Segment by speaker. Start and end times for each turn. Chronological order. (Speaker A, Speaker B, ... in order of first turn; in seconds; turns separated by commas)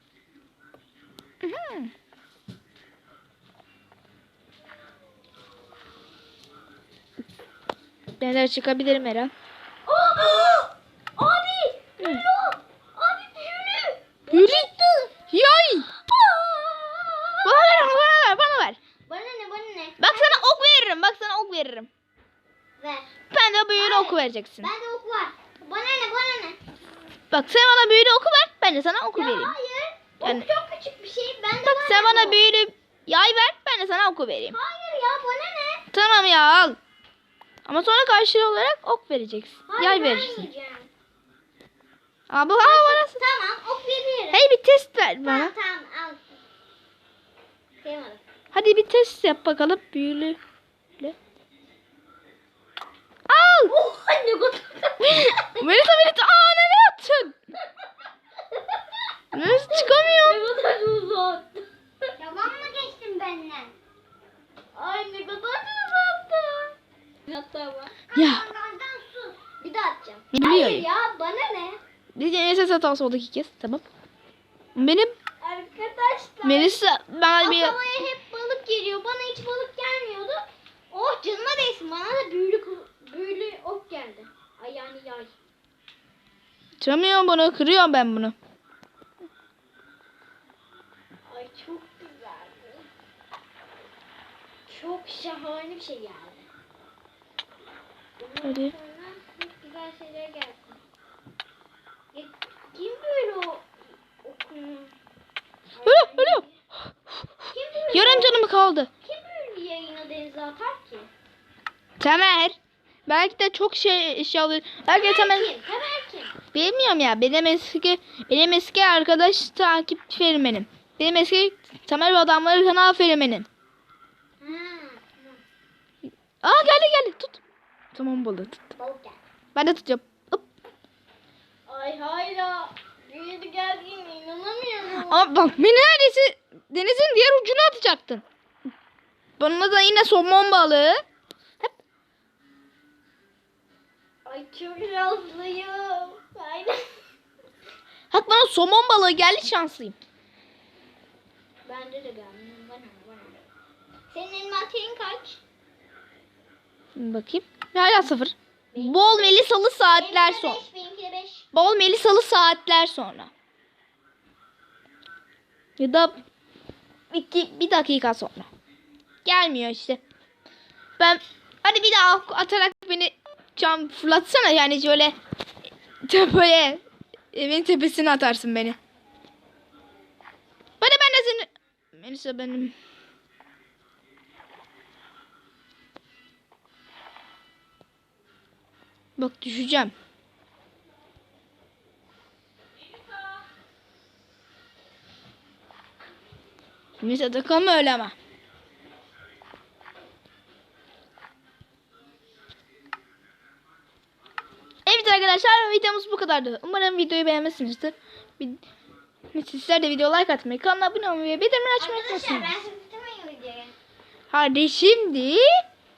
Speaker A: 1.4-1.9, Speaker A: 8.2-9.3, Speaker B: 9.8-15.1, Speaker A: 14.3-14.7, Speaker A: 15.3-15.9, Speaker B: 16.1-18.0, Speaker A: 17.4-18.8, Speaker B: 19.1-20.6, Speaker A: 20.0-21.9, Speaker B: 22.8-23.1, Speaker A: 23.3-24.7, Speaker B: 23.8-26.6, Speaker A: 27.3-29.5, Speaker B: 29.1-32.4, Speaker A: 30.2-30.5, Speaker A: 31.6-34.6, Speaker B: 34.5-35.9, Speaker A: 35.9-36.8, Speaker A: 37.6-40.5, Speaker B: 39.7-40.9, Speaker A: 42.3-43.2, Speaker B: 42.6-44.4, Speaker A: 44.3-45.5, Speaker B: 45.2-46.2, Speaker B: 47.8-48.2, Speaker A: 48.5-50.4, Speaker A: 53.3-53.7, Speaker B: 53.7-55.8, Speaker A: 55.0-57.4, Speaker A: 59.3-60.4, Speaker B: 59.3-63.7, Speaker B: 64.7-71.8, Speaker A: 68.1-68.5, Speaker A: 70.3-70.8, Speaker A: 72.1-73.8, Speaker A: 74.7-75.1, Speaker B: 75.4-76.8, Speaker A: 76.4-77.8, Speaker B: 77.4-85.3, Speaker A: 86.8-88.3, Speaker B: 91.3-92.9, Speaker B: 94.7-96.5, Speaker B: 98.2-100.8, Speaker A: 98.4-98.7, Speaker B: 102.1-104.9, Speaker B: 105.7-106.5, Speaker A: 105.8-106.4, Speaker B: 107.5-108.4, Speaker A: 107.9-108.9, Speaker B: 109.0-111.1, Speaker A: 112.0-115.5, Speaker B: 114.9-116.4, Speaker A: 116.5-123.5, Speaker B: 124.4-125.4, Speaker A: 126.4-127.4, Speaker A: 127.9-128.6, Speaker B: 128.8-129.2, Speaker A: 129.5-130.4, Speaker B: 131.7-135.3, Speaker A: 134.9-138.2, Speaker A: 139.4-141.0, Speaker B: 144.2-147.0, Speaker A: 148.1-149.9, Speaker B: 151.6-153.5, Speaker B: 154.1-155.4, Speaker A: 156.9-160.6, Speaker B: 158.7-159.4, Speaker B: 159.9-161.5, Speaker A: 161.5-163.3, Speaker A: 165.8-166.2, Speaker A: 167.1-168.5, Speaker A: 169.2-170.0, Speaker A: 171.0-175.1, Speaker A: 176.1-176.8, Speaker A: 177.3-178.8, Speaker A: 180.8-182.7, Speaker A: 189.2-189.9, Speaker A: 197.0-198.1, Speaker A: 204.8-208.6, Speaker A: 209.3-212.5, Speaker B: 211.8-213.7, Speaker A: 214.3-215.6